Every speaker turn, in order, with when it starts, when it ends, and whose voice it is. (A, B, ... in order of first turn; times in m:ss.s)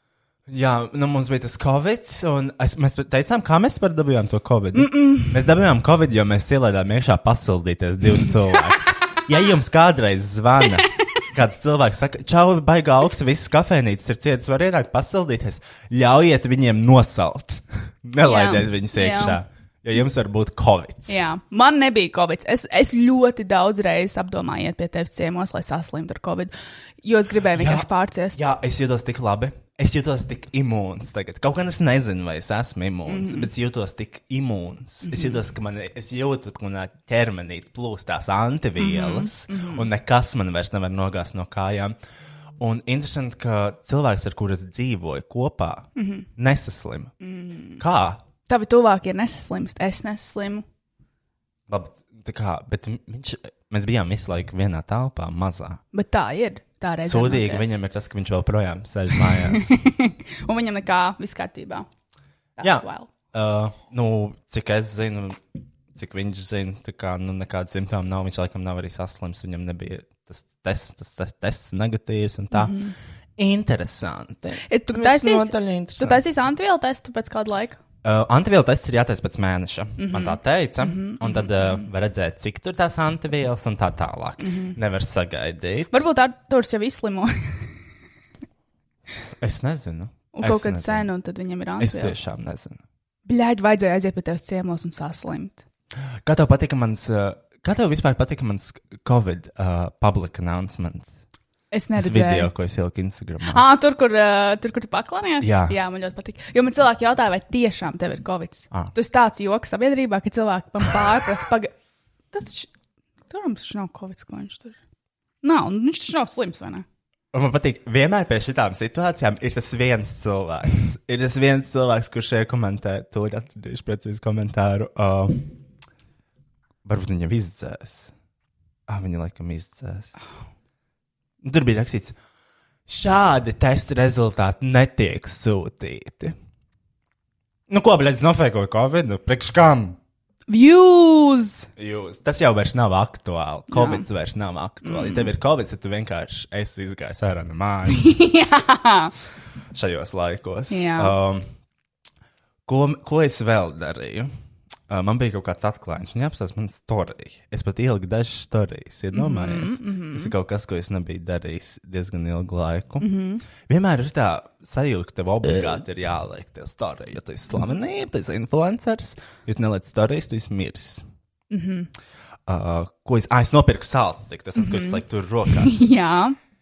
0:00.5-0:21.3 A
0:04.7-0:05.4 B
0:18.2-0:19.4 B
0:21.1-0:28.4 B
0:27.5-0:42.0 A
0:33.1-0:33.5 B
0:38.8-0:39.9 B
0:42.6-0:47.1 A
0:46.0-0:46.3 B
0:47.2-0:47.8 B
0:47.8-0:48.2 A
0:48.5-0:50.6 B
0:51.7-0:55.8 A
0:55.9-0:57.6 B
0:57.0-0:59.8 A
0:59.3-1:01.9 B
1:02.6-1:03.1 B
1:02.6-1:05.4 A
1:05.9-1:12.8 A
1:12.5-1:12.9 B
1:13.4-1:16.2 A
1:14.6-1:17.8 B
1:18.0-1:26.0 A
1:20.0-1:21.9 B
1:24.4-1:24.8 B
1:25.9-1:27.7 B
1:29.4-1:31.1 A
1:30.3-1:32.2 B
1:31.8-1:32.8 A
1:33.2-1:35.6 B
1:36.2-1:41.1 A
1:41.7-1:42.5 B
1:42.0-1:43.6 A
1:43.5-1:51.7 B
1:45.4-1:45.7 A
1:52.3-1:52.7 B
1:53.3-1:54.8 B
1:55.4-1:56.8 B
1:57.3-2:05.4 A
2:06.8-2:08.1 A
2:08.9-2:10.1 A
2:11.4-2:12.2 A
2:12.9-2:16.3 A
2:17.7-2:20.0 A
2:20.5-2:21.7 B
2:21.8-2:28.2 A
2:23.7-2:24.0 B
2:24.8-2:25.3 B
2:27.9-2:29.1 B
2:29.7-2:31.4 A
2:30.7-2:31.1 B
2:32.6-2:34.3 A
2:34.9-2:43.1 A
2:39.1-2:40.3 B
2:43.0-2:43.4 B
2:43.6-2:51.0 A
2:51.5-2:51.9 B
2:52.4-2:55.9 A
2:54.6-2:56.4 B